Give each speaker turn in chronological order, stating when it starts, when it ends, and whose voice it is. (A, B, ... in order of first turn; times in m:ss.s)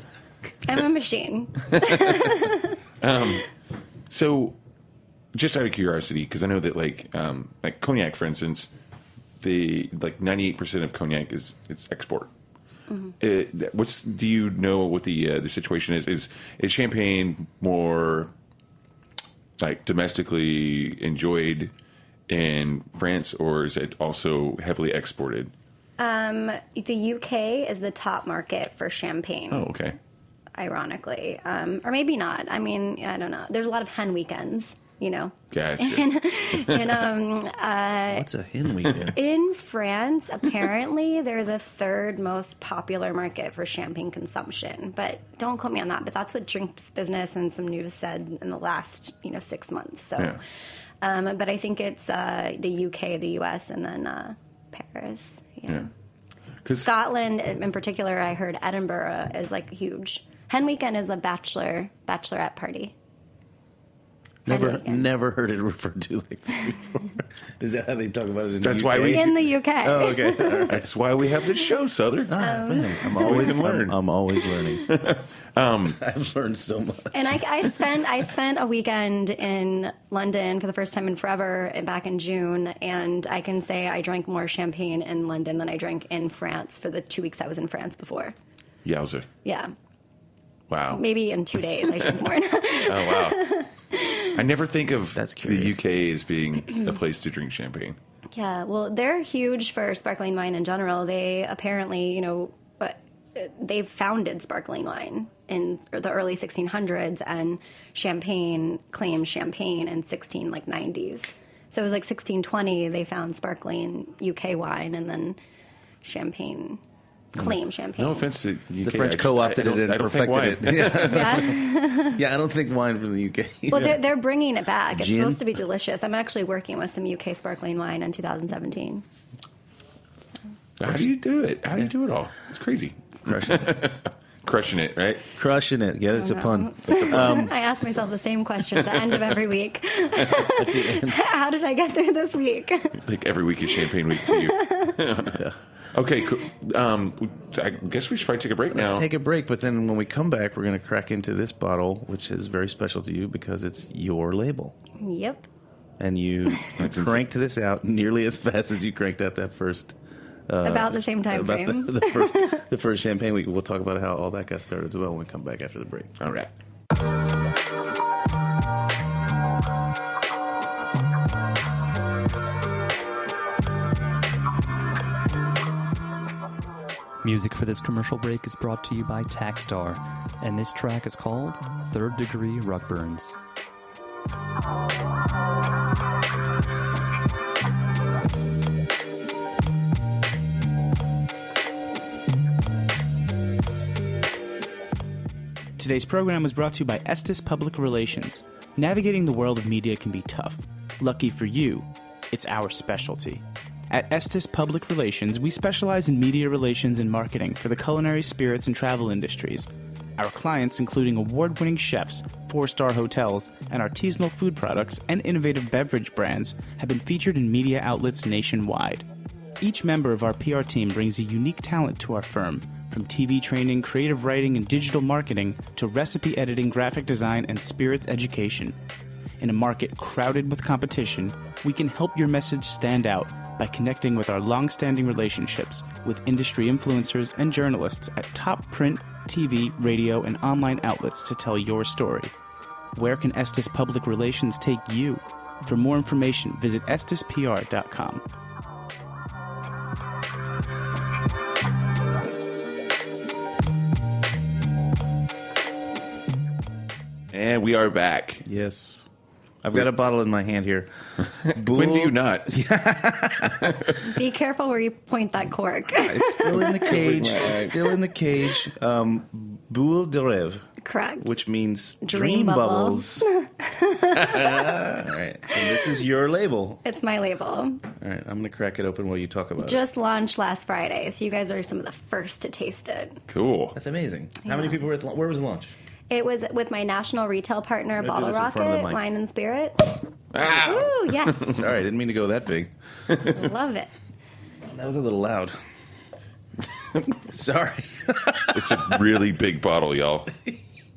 0:00.6-0:02.8 A
0:01.7-0:02.5 B
0:03.0-0:03.5 B
0:04.1-0:04.6 B
0:05.3-0:08.7 B
0:09.4-0:12.3 B
0:13.2-0:18.3 B
0:19.6-0:21.7 B
0:22.3-0:25.5 B
0:26.0-0:29.7 A
0:29.5-0:30.0 B
0:30.5-0:38.3 A
0:35.5-0:37.1 B
0:38.1-0:39.2 C
0:39.1-0:50.4 A
0:51.0-0:55.9 A
0:56.6-0:56.9 B
0:56.8-1:02.9 A
1:04.4-1:10.9 C
1:04.5-1:05.1 A
1:08.6-1:09.4 B
1:09.0-1:10.7 A
1:10.7-1:14.0 B
1:12.3-1:14.9 C
1:12.4-1:13.6 A
1:14.8-1:16.0 B
1:15.9-1:17.4 C
1:17.1-1:28.3 A
1:28.8-1:29.3 B
1:29.4-1:29.7 A
1:30.7-1:31.0 B
1:30.9-1:34.4 A
1:32.8-1:33.6 B
1:34.3-1:38.0 B
1:35.1-1:35.8 C
1:38.3-1:55.4 A
1:56.0-1:56.8 A
1:57.3-1:58.3 A
1:57.4-2:01.5 B
1:58.8-2:04.0 C
2:01.0-2:02.2 A
2:03.7-2:09.0 A
2:04.9-2:05.4 C
2:10.8-2:15.2 B
2:13.2-2:13.8 C
2:15.4-2:17.5 C
2:16.1-2:23.0 A
2:16.9-2:17.4 B
2:18.9-2:19.2 B
2:20.4-2:21.2 C
2:23.0-2:25.4 B
2:23.7-2:25.0 A
2:25.2-2:25.6 C
2:25.9-2:29.1 B
2:28.7-2:34.8 C
2:35.0-2:35.5 A
2:36.0-2:40.0 C
2:36.8-2:37.2 B
2:40.5-2:46.2 C
2:40.6-2:42.6 A
2:46.2-2:46.5 B
2:57.2-3:03.3 D
3:15.8-3:39.0 E
3:39.6-3:48.7 E
3:49.4-4:02.3 E
4:02.9-4:08.2 E
4:17.3-4:18.4 B
4:18.4-4:19.0 C
4:19.6-4:20.9 C
4:21.4-4:23.9 C
4:21.5-4:22.5 B
4:23.6-4:24.0 B
4:24.0-4:26.9 A
4:25.9-4:30.7 C
4:26.8-4:27.9 B
4:30.8-4:31.4 A
4:31.2-4:33.3 C
4:32.0-4:34.8 A
4:34.2-4:35.1 B
4:34.5-4:36.8 C
4:36.8-4:37.8 A
4:38.0-4:39.8 C
4:39.6-4:43.2 A
4:43.3-4:43.8 B
4:43.7-4:45.7 C
4:46.1-4:51.6 A
4:48.0-4:49.0 C
4:50.3-4:51.5 B
4:51.5-4:52.7 C
4:53.2-4:53.9 A
4:54.7-4:55.6 C
4:57.2-4:59.0 C
4:58.5-5:00.3 B